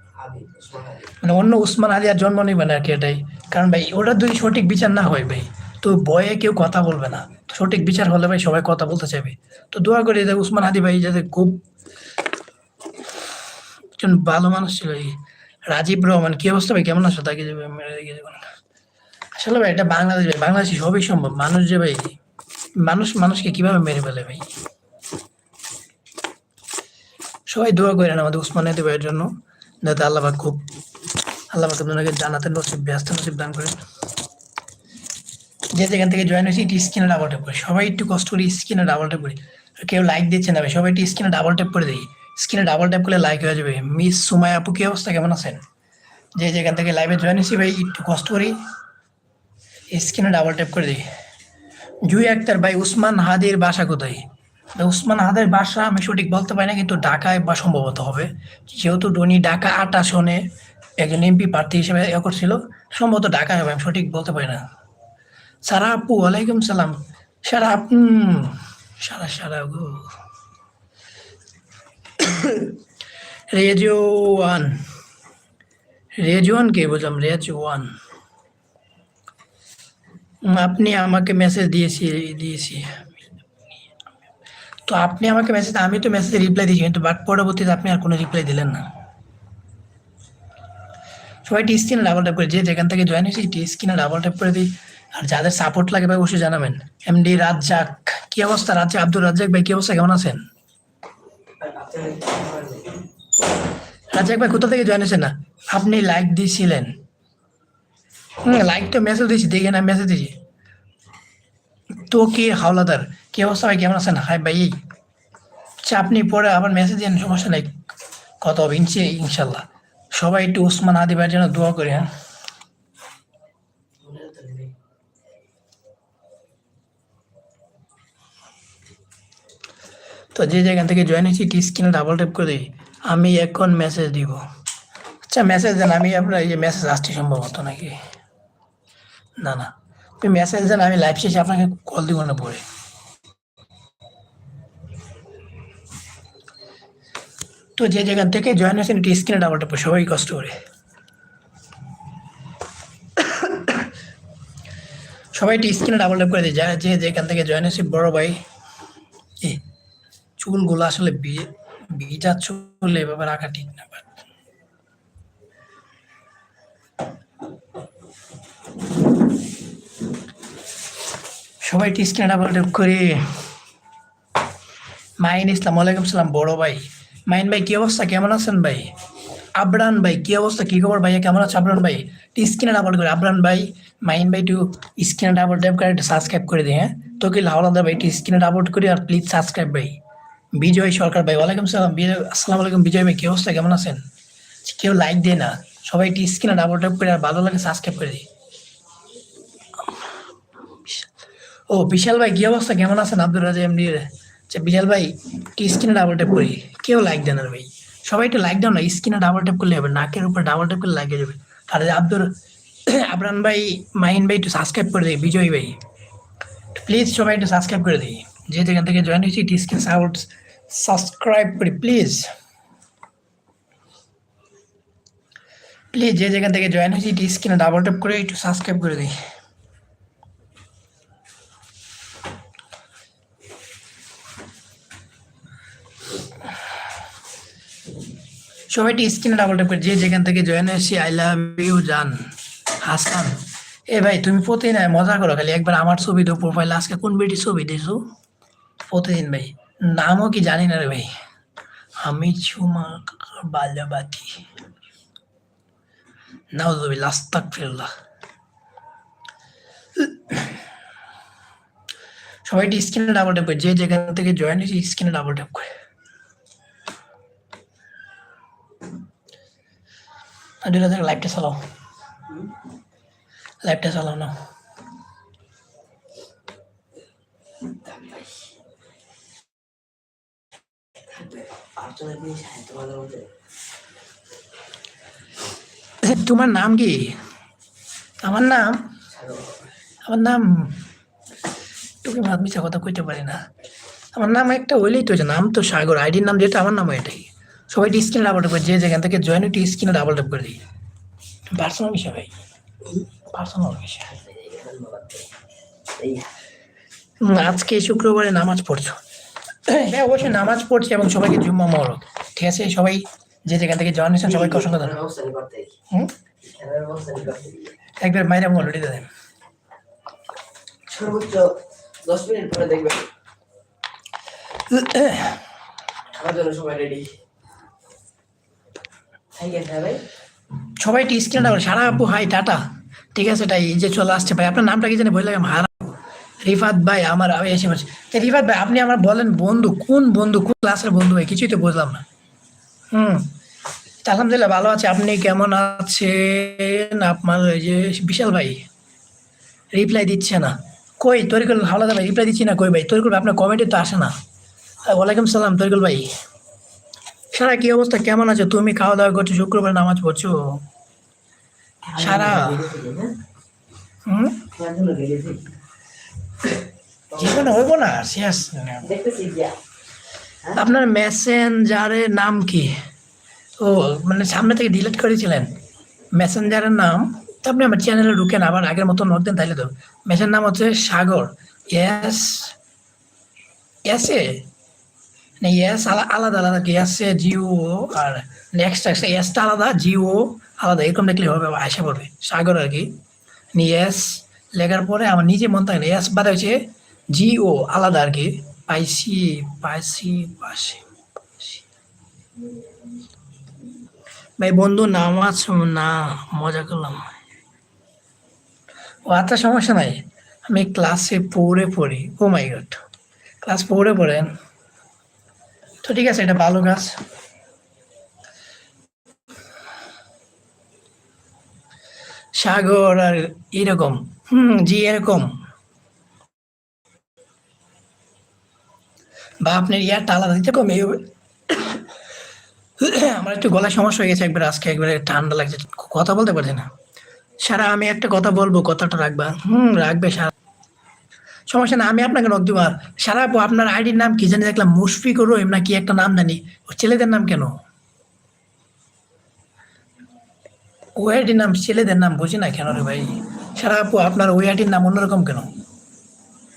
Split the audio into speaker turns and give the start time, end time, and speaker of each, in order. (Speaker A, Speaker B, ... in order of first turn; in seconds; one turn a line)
Speaker A: 0.1-1.1
Speaker B: 1.2-11.6
Speaker B: 14.0-18.4
Speaker B: 19.4-22.1
Speaker B: 22.8-24.5
Speaker B: 27.5-30.6
Speaker B: 31.5-33.8
Speaker B: 35.7-45.6
Speaker B: 46.4-48.6
Speaker B: 49.9-51.0
Speaker B: 52.0-54.2
Speaker B: 54.8-60.5
Speaker B: 61.0-64.6
Speaker B: 65.6-70.1
Speaker B: 72.2-72.8
Speaker B: 73.5-74.8
Speaker B: 76.2-77.9
Speaker B: 80.4-83.1
Speaker B: 84.9-88.9
Speaker B: 91.4-100.4
Speaker A: 101.6-103.0
Speaker B: 104.1-107.0
Speaker B: 108.4-110.4
Speaker B: 112.0-114.8
Speaker B: 115.8-117.7
Speaker B: 118.4-122.1
Speaker A: 124.0-124.8
Speaker B: 130.3-134.4
Speaker B: 135.3-138.0
Speaker B: 139.4-142.6
Speaker B: 147.8-150.5
Speaker B: 153.2-153.7
Speaker B: 155.3-158.4
Speaker B: 160.4-164.1
Speaker B: 171.6-173.4
Speaker B: 175.2-178.9
Speaker B: 179.6-190.0
Speaker B: 190.5-194.0
Speaker B: 194.6-198.3
Speaker B: 201.7-212.3
Speaker B: 212.9-215.8
Speaker B: 216.8-222.3
Speaker B: 225.9-229.1
Speaker B: 238.7-248.1
Speaker B: 248.8-251.1
Speaker B: 252.0-254.4
Speaker B: 256.5-257.9
Speaker B: 259.9-260.6
Speaker B: 262.4-265.7
Speaker B: 270.6-271.6
Speaker A: 272.3-272.5
Speaker B: 273.6-274.4
Speaker A: 277.6-278.4
Speaker A: 281.1-283.3
Speaker B: 286.0-287.2
Speaker B: 288.2-288.9
Speaker A: 289.1-289.7
Speaker B: 290.0-290.8
Speaker B: 292.0-293.4
Speaker B: 294.1-300.6
Speaker B: 301.5-302.3
Speaker B: 303.3-304.1
Speaker A: 304.1-305.3
Speaker A: 305.9-306.3
Speaker B: 307.2-309.0
Speaker B: 309.6-315.0
Speaker A: 314.2-315.7
Speaker A: 316.4-317.8
Speaker B: 318.0-319.1
Speaker A: 320.9-323.1
Speaker B: 324.7-325.4
Speaker A: 326.1-327.1
Speaker A: 329.3-330.0
Speaker B: 330.8-332.6
Speaker B: 333.1-335.8
Speaker B: 336.4-342.0
Speaker B: 342.9-343.3
Speaker B: 344.0-348.6
Speaker B: 349.7-354.1
Speaker B: 354.8-356.1
Speaker B: 357.3-360.6
Speaker A: 361.8-363.1
Speaker B: 362.0-362.6
Speaker B: 364.1-364.5
Speaker A: 364.5-365.5
Speaker A: 367.1-367.6
Speaker B: 367.2-368.9
Speaker A: 368.8-369.6
Speaker B: 370.6-372.7
Speaker B: 373.6-375.6
Speaker B: 376.1-382.6
Speaker B: 383.9-384.5
Speaker B: 385.4-392.9
Speaker B: 393.5-400.8
Speaker B: 404.4-407.1
Speaker B: 409.1-412.8
Speaker B: 413.4-414.4
Speaker B: 415.8-417.0
Speaker B: 422.3-425.3
Speaker B: 429.4-431.8
Speaker B: 432.8-436.7
Speaker B: 437.4-440.3
Speaker B: 441.5-447.5
Speaker B: 450.9-455.5